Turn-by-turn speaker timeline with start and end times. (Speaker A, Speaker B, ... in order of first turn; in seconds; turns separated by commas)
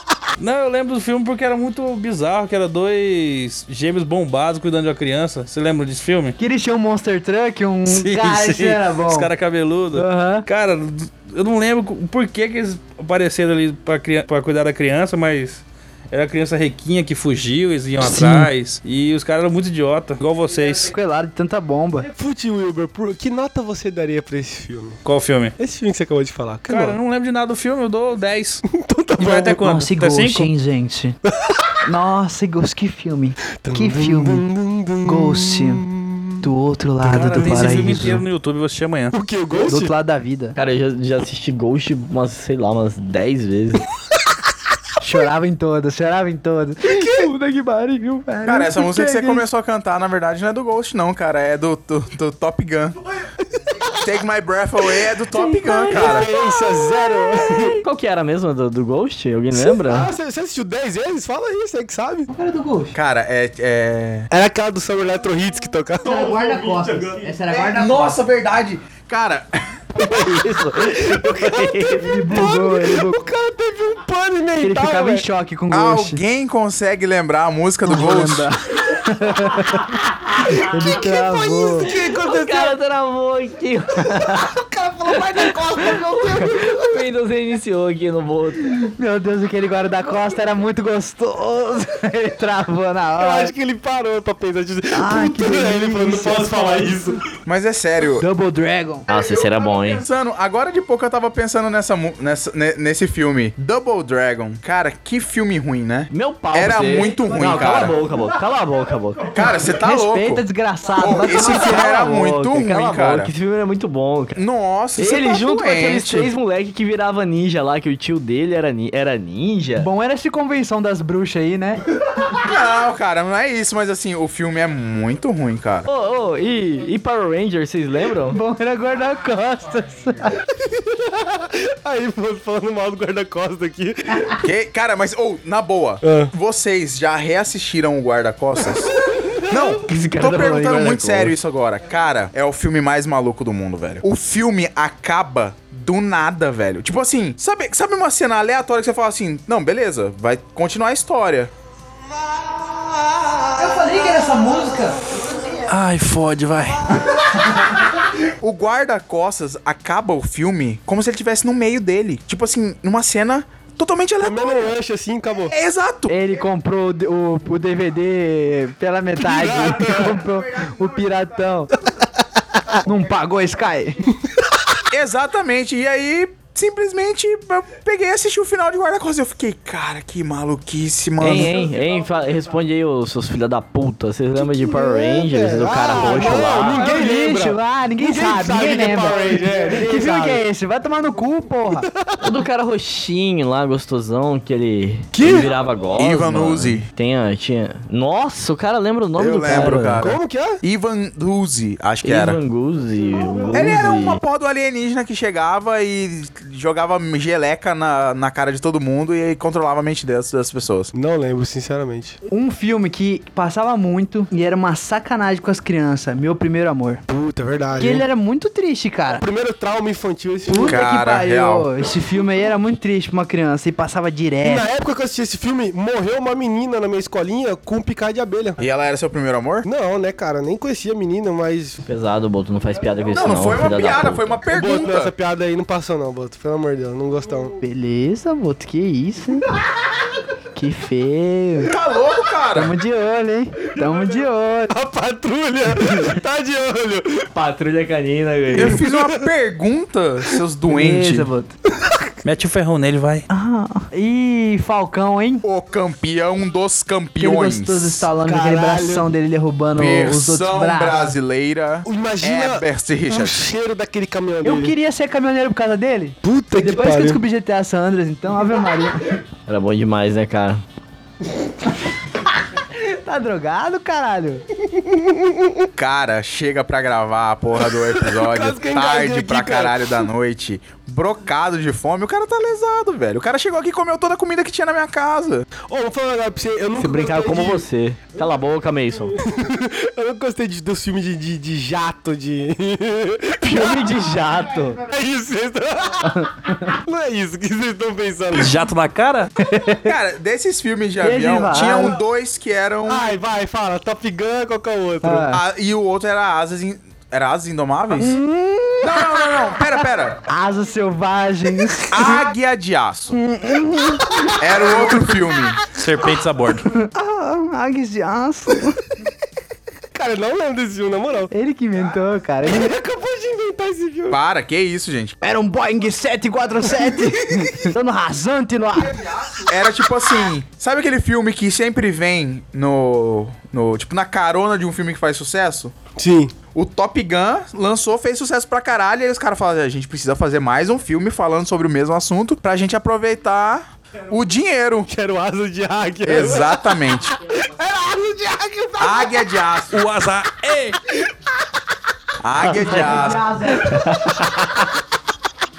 Speaker A: 0.4-6.3, Speaker B: 6.4-9.3, Speaker A: 7.9-20.9, Speaker B: 9.9-10.4, Speaker B: 18.0-18.5, Speaker B: 20.8-22.1, Speaker C: 22.1-25.0, Speaker A: 25.0-25.5, Speaker C: 25.6-27.0, Speaker A: 26.7-28.6, Speaker C: 28.7-29.6, Speaker A: 29.2-30.5, Speaker B: 29.5-31.2, Speaker B: 31.8-34.5, Speaker C: 33.6-36.4, Speaker B: 35.0-35.9, Speaker B: 36.4-38.2, Speaker A: 37.0-39.1, Speaker C: 39.1-39.9, Speaker B: 39.6-40.5, Speaker D: 40.5-43.9, Speaker B: 45.0-49.4, Speaker C: 46.8-47.3, Speaker E: 48.4-53.0, Speaker E: 54.0-56.3, Speaker C: 55.9-57.8, Speaker D: 56.2-56.6, Speaker D: 57.4-60.1, Speaker C: 59.5-62.3, Speaker B: 62.3-63.0, Speaker E: 62.9-64.3, Speaker C: 64.3-67.2, Speaker B: 66.0-68.2, Speaker E: 67.5-69.8, Speaker D: 70.0-72.2, Speaker C: 70.0-75.2, Speaker B: 72.0-73.2, Speaker B: 74.6-76.2, Speaker E: 75.7-78.5, Speaker B: 77.8-81.9, Speaker C: 80.5-82.8, Speaker D: 81.9-88.7, Speaker C: 84.6-86.8, Speaker B: 88.6-93.5, Speaker C: 93.2-97.2, Speaker B: 94.9-97.1, Speaker E: 97.4-98.2, Speaker B: 98.2-99.0, Speaker D: 99.1-100.0, Speaker E: 99.8-108.0, Speaker D: 106.1-109.4, Speaker E: 109.3-110.4, Speaker B: 109.8-112.0, Speaker E: 111.0-113.3, Speaker D: 111.4-114.4, Speaker E: 114.3-116.3, Speaker D: 115.0-119.9, Speaker B: 119.8-121.8, Speaker E: 122.3-125.9, Speaker D: 125.9-128.4, Speaker B: 128.3-130.4, Speaker C: 130.6-134.3, Speaker E: 134.4-138.9, Speaker C: 136.0-136.3, Speaker C: 139.1-139.4, Speaker E: 139.5-151.5, Speaker D: 139.8-141.3, Speaker B: 153.5-155.2, Speaker A: 155.7-157.2, Speaker E: 158.2-164.7, Speaker C: 164.2-165.5, Speaker E: 165.5-166.2, Speaker B: 166.1-171.7, Speaker C: 169.2-170.2, Speaker E: 169.4-171.7, Speaker B: 172.8-174.1, Speaker E: 174.9-181.6, Speaker D: 181.2-186.9, Speaker C: 184.3-190.4, Speaker B: 186.0-191.8, Speaker C: 191.7-192.4, Speaker D: 192.2-200.1, Speaker C: 195.1-195.5, Speaker E: 195.9-196.9, Speaker E: 199.2-202.4, Speaker C: 199.7-200.6, Speaker D: 202.0-204.2, Speaker E: 203.5-210.9, Speaker C: 210.9-212.2, Speaker B: 212.3-217.0, Speaker C: 217.1-218.0, Speaker B: 217.8-219.2, Speaker C: 219.1-220.8, Speaker B: 220.5-224.7, Speaker E: 220.7-221.7, Speaker C: 224.4-228.6, Speaker E: 228.6-229.7, Speaker C: 229.6-231.8, Speaker D: 231.9-234.4, Speaker E: 233.1-235.1, Speaker C: 234.5-237.5, Speaker B: 237.6-239.6, Speaker B: 240.5-241.7, Speaker E: 241.6-242.7, Speaker B: 242.5-244.7, Speaker C: 244.7-247.3, Speaker B: 245.8-246.1, Speaker D: 247.3-248.8, Speaker E: 248.5-251.3, Speaker C: 248.6-249.1, Speaker B: 250.7-251.5, Speaker A: 252.2-253.3, Speaker B: 253.3-255.4, Speaker E: 255.4-258.1, Speaker B: 257.2-261.1, Speaker C: 258.2-259.1, Speaker E: 259.8-263.4, Speaker C: 261.8-264.7, Speaker B: 264.4-269.2, Speaker C: 266.2-267.2, Speaker D: 269.5-270.6, Speaker B: 272.7-274.4, Speaker C: 274.8-275.6, Speaker E: 275.8-285.5, Speaker C: 277.6-280.1, Speaker C: 285.7-287.6, Speaker D: 286.8-289.2, Speaker C: 289.2-293.9, Speaker B: 293.4-294.8, Speaker C: 294.9-296.3, Speaker B: 296.1-296.8, Speaker C: 296.8-298.6, Speaker A: 298.3-299.3, Speaker B: 299.4-299.9, Speaker E: 299.8-303.1, Speaker B: 301.0-302.0, Speaker C: 302.9-305.3, Speaker B: 305.0-305.4, Speaker E: 305.3-308.2, Speaker B: 307.9-309.5, Speaker E: 308.8-310.2, Speaker B: 310.2-312.2, Speaker E: 311.9-313.2, Speaker B: 313.1-315.0, Speaker E: 314.4-315.6, Speaker A: 315.7-316.7, Speaker B: 316.7-318.8, Speaker C: 319.9-321.3, Speaker B: 321.3-322.8, Speaker C: 322.4-324.2, Speaker E: 324.1-325.2, Speaker B: 325.2-329.1, Speaker C: 327.0-327.5, Speaker E: 328.9-335.7, Speaker C: 336.0-336.3, Speaker E: 336.5-344.9, Speaker C: 344.9-349.2, Speaker E: 346.0-347.1, Speaker E: 348.8-349.8, Speaker A: 349.7-350.8, Speaker E: 352.2-353.4, Speaker D: 352.6-352.9, Speaker B: 352.6-353.9, Speaker D: 353.6-354.5